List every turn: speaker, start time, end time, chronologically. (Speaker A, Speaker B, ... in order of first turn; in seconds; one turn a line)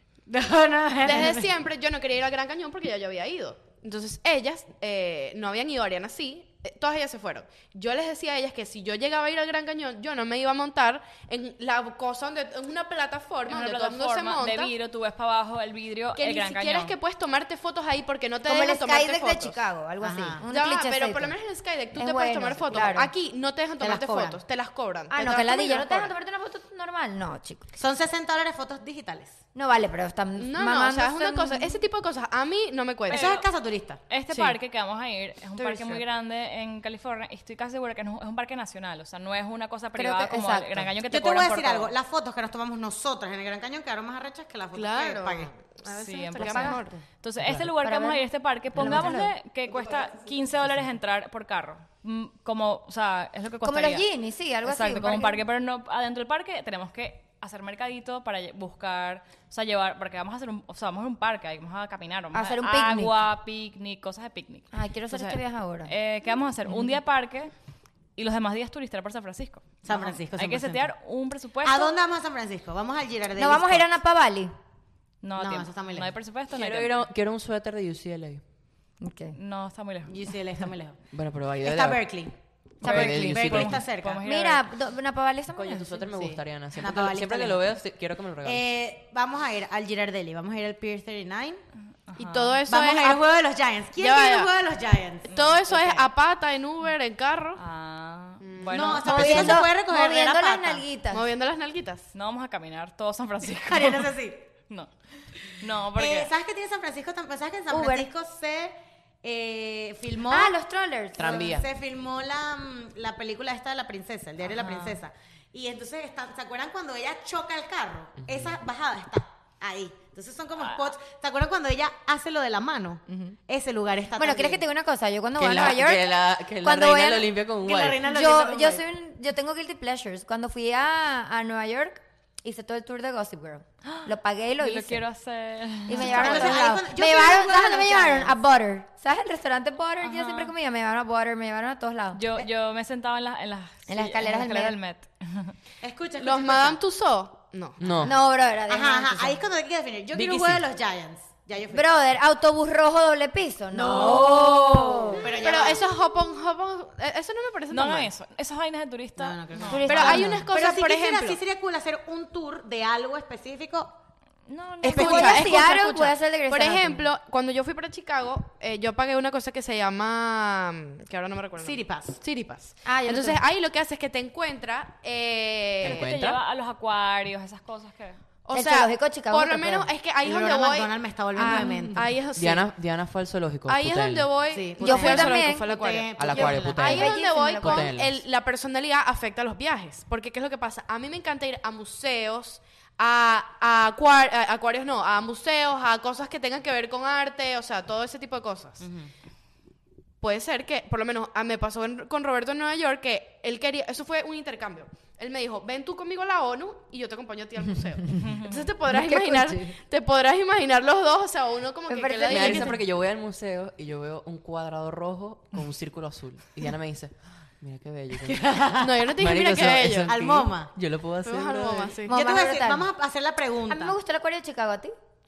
Speaker A: 0.3-1.5
Speaker B: 1.0-14.7
Speaker C: 13.5-16.9
Speaker B: 16.2-19.6
Speaker D: 18.5-21.4
Speaker A: 20.0-20.4
Speaker B: 20.5-26.1
Speaker D: 21.9-23.1
Speaker A: 23.8-24.4
Speaker D: 25.1-27.7
Speaker A: 27.8-29.4
Speaker D: 29.6-31.8
Speaker B: 30.4-33.4
Speaker A: 33.1-34.0
Speaker C: 33.1-33.5
Speaker C: 34.1-41.9
Speaker B: 34.3-34.6
Speaker B: 35.6-36.0
Speaker D: 40.0-40.9
Speaker A: 41.1-45.5
Speaker B: 44.7-47.0
Speaker C: 45.9-54.1
Speaker D: 46.4-47.0
Speaker E: 47.4-47.7
Speaker D: 47.8-49.4
Speaker D: 53.6-55.4
Speaker C: 54.6-67.5
Speaker D: 62.3-63.2
Speaker D: 64.7-65.9
Speaker C: 68.2-71.9
Speaker A: 69.8-70.9
Speaker A: 71.6-73.9
Speaker D: 73.4-74.5
Speaker C: 75.2-77.0
Speaker A: 75.4-76.1
Speaker E: 76.5-78.4
Speaker D: 79.0-79.4
Speaker C: 79.3-80.2
Speaker A: 80.1-81.0
Speaker E: 81.1-82.0
Speaker A: 81.6-84.2
Speaker C: 82.8-84.7
Speaker D: 82.8-83.6
Speaker E: 82.8-83.8
Speaker D: 84.2-86.1
Speaker E: 85.5-88.7
Speaker A: 86.2-87.7
Speaker A: 88.4-91.6
Speaker C: 92.1-92.6
Speaker B: 92.2-93.2
Speaker A: 92.7-95.3
Speaker B: 94.0-94.5
Speaker C: 95.3-96.1
Speaker B: 95.3-97.6
Speaker C: 97.6-99.6
Speaker B: 98.4-99.0
Speaker A: 98.7-100.8
Speaker D: 99.0-101.3
Speaker E: 99.2-99.5
Speaker B: 101.1-102.1
Speaker C: 102.1-104.2
Speaker A: 103.6-104.5
Speaker C: 105.4-106.3
Speaker A: 106.0-110.6
Speaker D: 107.7-108.1
Speaker D: 110.3-111.5
Speaker E: 111.2-111.7
Speaker A: 111.2-124.6
Speaker C: 114.5-115.0
Speaker E: 118.2-118.5
Speaker C: 120.6-120.9
Speaker D: 124.2-127.3
Speaker E: 125.4-128.0
Speaker A: 127.6-128.8
Speaker D: 128.0-135.0
Speaker C: 133.8-136.7
Speaker D: 135.9-142.3
Speaker A: 135.9-138.3
Speaker C: 140.0-140.5
Speaker C: 142.1-145.6
Speaker D: 143.9-144.8
Speaker A: 145.8-146.8
Speaker B: 146.2-148.0
Speaker E: 147.8-148.2
Speaker D: 148.0-149.4
Speaker A: 148.7-151.9
Speaker E: 150.1-150.7
Speaker D: 151.7-155.3
Speaker A: 153.7-155.8
Speaker B: 155.3-158.1
Speaker C: 157.7-160.3
Speaker A: 159.2-163.9
Speaker D: 159.7-160.5
Speaker B: 159.8-161.4
Speaker C: 164.5-165.4
Speaker D: 164.8-167.1
Speaker A: 164.8-165.6
Speaker B: 164.9-176.1
Speaker A: 171.6-172.2
Speaker D: 172.8-173.4
Speaker E: 175.8-176.4
Speaker C: 175.8-178.2
Speaker B: 178.4-182.7
Speaker D: 178.5-179.9
Speaker A: 180.2-182.1
Speaker D: 181.4-182.0
Speaker E: 182.3-184.3
Speaker B: 183.7-198.9
Speaker A: 184.5-187.0
Speaker D: 184.8-185.7
Speaker E: 186.2-188.2
Speaker D: 186.8-187.9
Speaker A: 198.8-199.1
Speaker B: 200.2-212.8
Speaker C: 208.2-208.7
Speaker D: 208.9-209.8
Speaker D: 211.9-212.8
Speaker E: 212.3-218.4
Speaker A: 218.2-219.2
Speaker B: 218.8-220.1
Speaker E: 219.2-222.0
Speaker A: 220.1-220.7
Speaker B: 221.2-222.2
Speaker D: 222.1-222.9
Speaker A: 222.1-224.0
Speaker D: 223.7-224.9